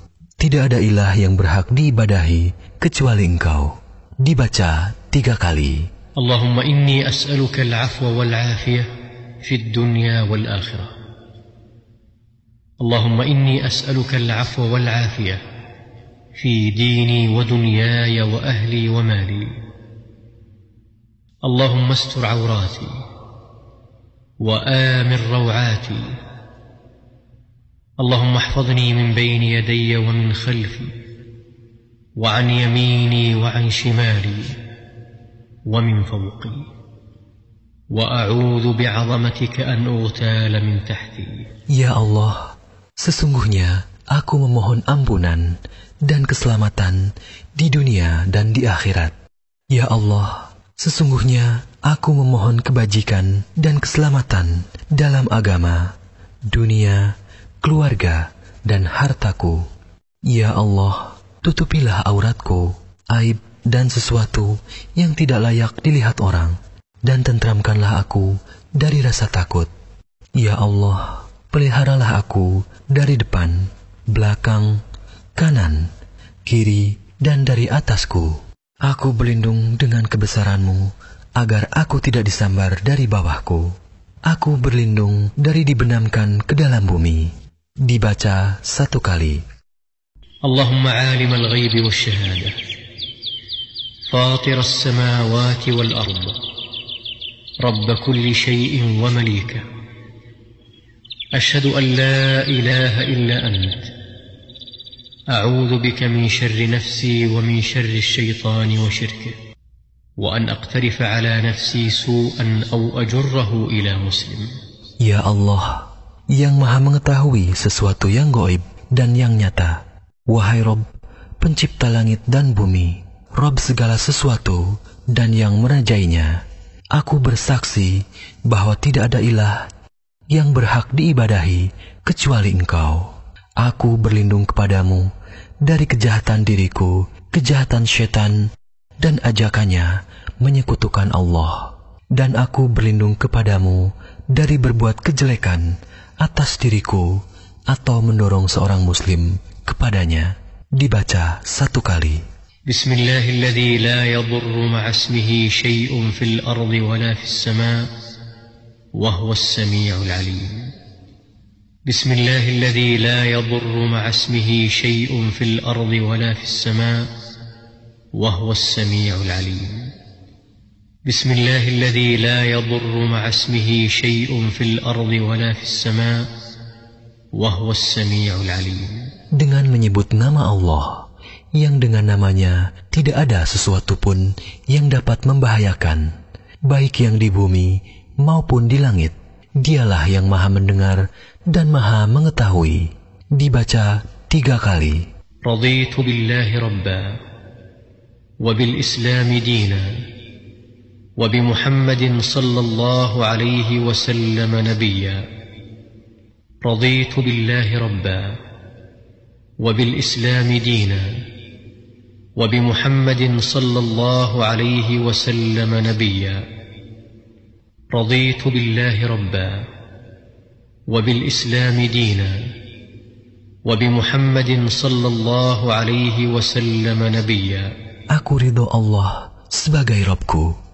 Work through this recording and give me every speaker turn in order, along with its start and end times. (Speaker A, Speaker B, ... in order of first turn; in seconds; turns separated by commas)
Speaker A: 0.4-5.9, Speaker B: 6.2-8.9, Speaker B: 9.4-11.0, Speaker B: 12.8-15.4, Speaker B: 16.4-19.6, Speaker B: 21.4-23.1, Speaker B: 24.4-26.2, Speaker B: 28.0-30.9, Speaker B: 32.2-34.6, Speaker B: 35.6-36.7, Speaker B: 37.9-41.5, Speaker A: 41.7-49.1, Speaker A: 49.7-55.9, Speaker A: 56.5-57.1, Speaker A: 57.6-59.6, Speaker A: 60.3-69.7, Speaker A: 70.4-74.8, Speaker A: 75.4-75.9, Speaker A: 76.5-83.7, Speaker A: 84.3-87.3, Speaker A: 87.9-89.4, Speaker B: 90.4-92.6, Speaker B: 94.1-96.4, Speaker B: 97.6-99.7, Speaker B: 101.3-103.9, Speaker B: 105.3-109.4, Speaker B: 110.2-114.6, Speaker A: 115.0-120.8, Speaker A: 121.4-126.4, Speaker A: 127.0-129.7, Speaker A: 130.3-135.1, Speaker A: 135.6-138.5, Speaker A: 139.0-152.2, Speaker B: 152.7-157.9, Speaker B: 158.9-160.8, Speaker B: 161.9-167.1, Speaker B: 168.1-169.9, Speaker B: 171.1-176.3, Speaker B: 177.3-179.1, Speaker A: 179.4-186.1, Speaker A: 186.7-195.1, Speaker B: 195.4-197.2, Speaker B: 198.4-200.0, Speaker B: 201.2-205.3, Speaker B: 206.6-208.4, Speaker B: 209.6-211.2, Speaker B: 212.4-216.5, Speaker B: 217.9-219.7, Speaker B: 220.9-222.5, Speaker B: 223.6-227.7, Speaker A: 228.1-230.5